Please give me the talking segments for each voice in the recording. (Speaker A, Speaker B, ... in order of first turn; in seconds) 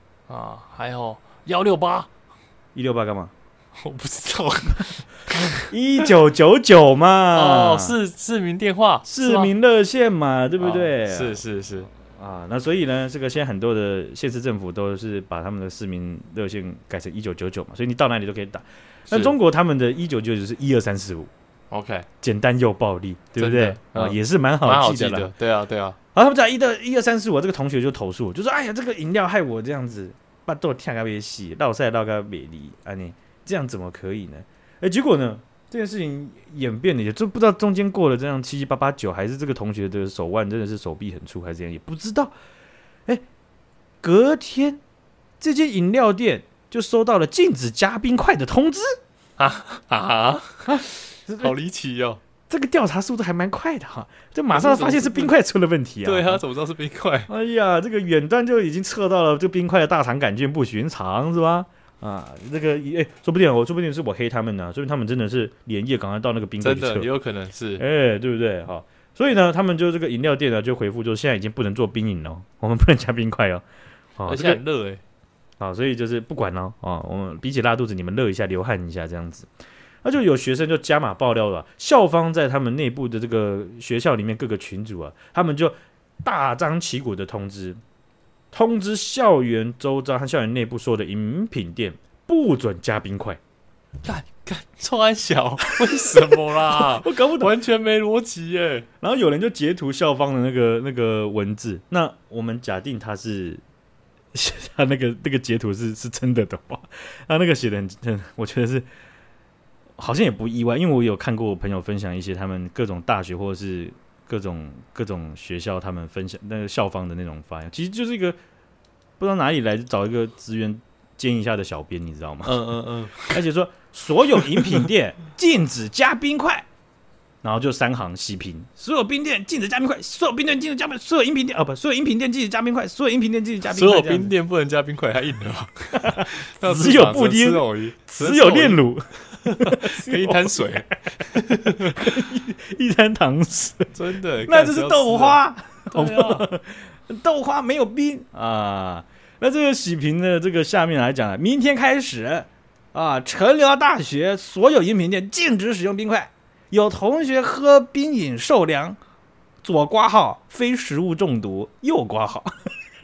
Speaker A: 0.3-2.1, 3.8-5.7, 7.3-9.5, 10.6-11.9, 19.1-19.4, 21.7-22.1, 23.4-26.0, 49.4-50.8, 51.4-52.2, 54.5-55.3, 56.0-57.3, 66.6-67.8, 74.3-75.0, 94.0-98.9, 122.5-123.4, 124.4-124.9, 133.6-142.3, 143.9-145.4, 145.9-146.5
Speaker B: 2.8-3.3, 5.6-8.0, 9.1-11.4, 11.9-21.3, 22.2-25.3, 26.1-42.3, 44.0-44.8, 45.4-49.0, 50.7-51.5, 52.5-56.4, 57.3-67.1, 67.8-73.6, 74.2-74.6, 75.6-79.5, 80.0-87.8, 88.5-93.4, 95.7-97.5, 99.0-103.6, 104.3-108.9, 110.0-118.4, 119.2-122.6, 123.3-126.7, 127.4-134.3, 136.0-143.9, 144.4-159.0, 159.6-162.7